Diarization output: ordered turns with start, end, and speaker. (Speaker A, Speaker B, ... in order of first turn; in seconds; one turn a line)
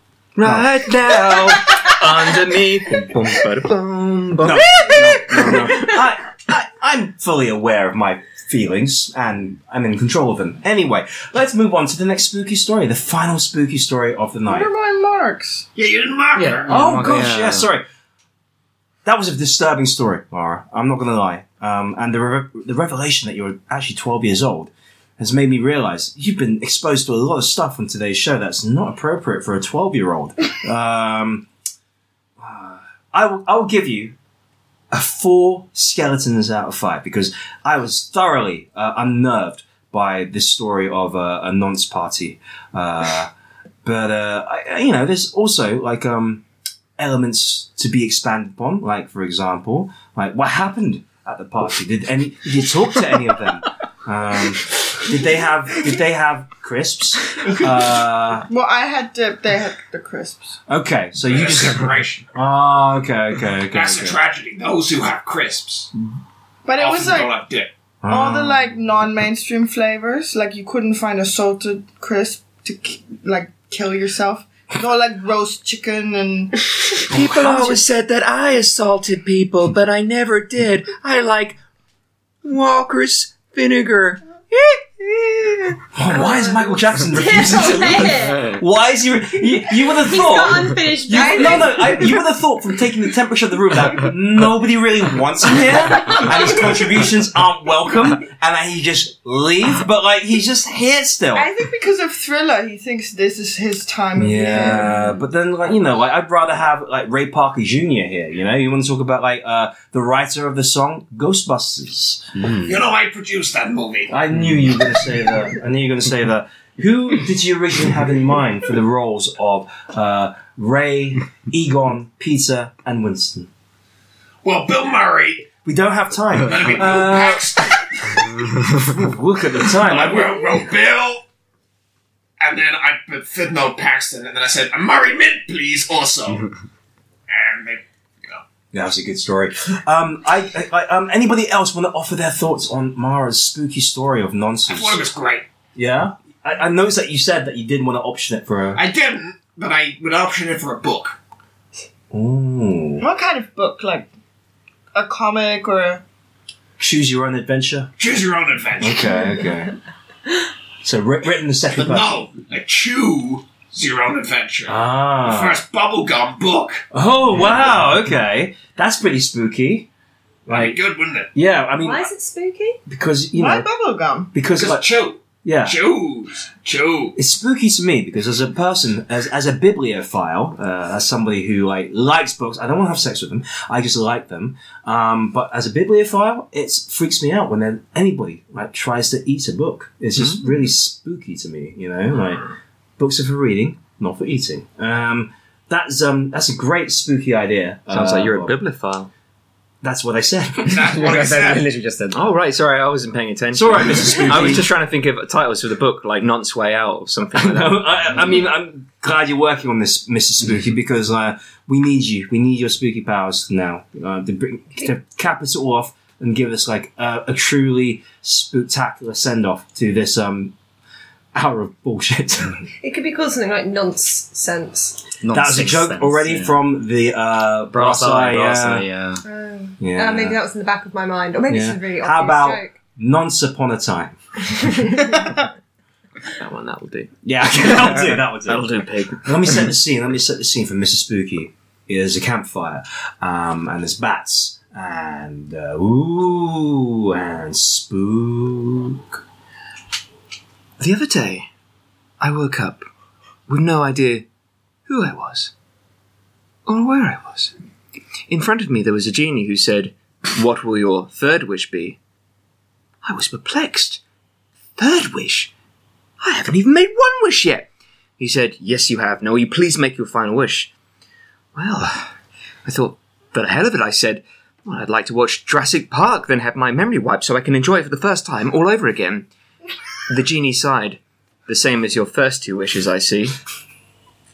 Speaker A: 0.4-5.9
Speaker B: 0.4-0.7
Speaker B: 4.4-14.7
Speaker C: 14.5-15.7
Speaker D: 15.8-16.8
Speaker E: 16.3-17.7
Speaker B: 16.7-17.8
Speaker B: 19.0-31.5
Speaker B: 32.4-34.1
Speaker B: 34.9-43.3
Speaker B: 43.8-46.4
Speaker B: 47.0-58.5
Speaker C: 58.5-60.6
Speaker B: 60.7-64.2
Speaker D: 61.3-62.2
Speaker D: 63.7-65.9
Speaker C: 66.6-67.3
Speaker D: 66.8-67.7
Speaker B: 68.0-68.6
Speaker C: 68.1-77.2
Speaker A: 77.1-81.6
Speaker A: 82.4-85.8
Speaker B: 85.9-101.5
Speaker F: 86.1-88.6
Speaker F: 89.9-92.2
Speaker C: 101.3-104.9
Speaker B: 104.2-112.5
Speaker D: 112.6-114.2
Speaker B: 114.1-123.5
Speaker D: 124.4-125.5
Speaker B: 125.6-127.5
Speaker D: 126.4-128.3
Speaker B: 128.7-130.6
Speaker D: 129.8-131.2
Speaker D: 132.4-136.5
Speaker D: 137.3-138.4
Speaker B: 138.7-145.1
Speaker D: 144.7-145.4
Speaker B: 145.7-148.8
Speaker D: 148.7-151.2
Speaker B: 152.1-153.1
Speaker C: 153.0-154.1
Speaker C: 154.9-156.0
Speaker B: 156.8-157.9
Speaker D: 158.0-159.2
Speaker B: 158.8-159.8
Speaker B: 160.8-162.2
Speaker D: 161.7-166.8
Speaker B: 164.7-165.6
Speaker B: 166.9-169.9
Speaker B: 170.5-170.8
Speaker D: 170.5-171.3
Speaker B: 171.3-172.1
Speaker F: 171.8-172.8
Speaker B: 172.9-173.7
Speaker C: 173.3-174.3
Speaker B: 174.3-174.9
Speaker D: 174.5-177.2
Speaker B: 175.4-175.8
Speaker B: 177.2-192.4
Speaker B: 193.0-198.6
Speaker A: 197.9-199.1
Speaker B: 199.8-200.9
Speaker D: 200.7-201.7
Speaker E: 200.8-202.2
Speaker A: 202.1-207.8
Speaker B: 203.5-204.7
Speaker B: 207.3-220.5
Speaker B: 221.3-222.7
Speaker F: 222.8-225.0
Speaker E: 225.2-226.6
Speaker B: 225.3-228.9
Speaker E: 227.7-229.2
Speaker F: 229.2-232.7
Speaker B: 229.8-230.4
Speaker B: 231.5-234.2
Speaker F: 234.6-235.0
Speaker A: 236.4-239.6
Speaker B: 237.2-249.2
Speaker A: 250.8-251.5
Speaker A: 252.2-252.9
Speaker A: 253.5-254.2
Speaker A: 254.9-255.5
Speaker A: 256.6-257.5
Speaker A: 258.3-262.0
Speaker A: 263.0-264.0
Speaker A: 264.8-265.5
Speaker A: 266.2-270.7
Speaker A: 271.5-272.1
Speaker A: 272.6-279.3
Speaker A: 280.1-283.4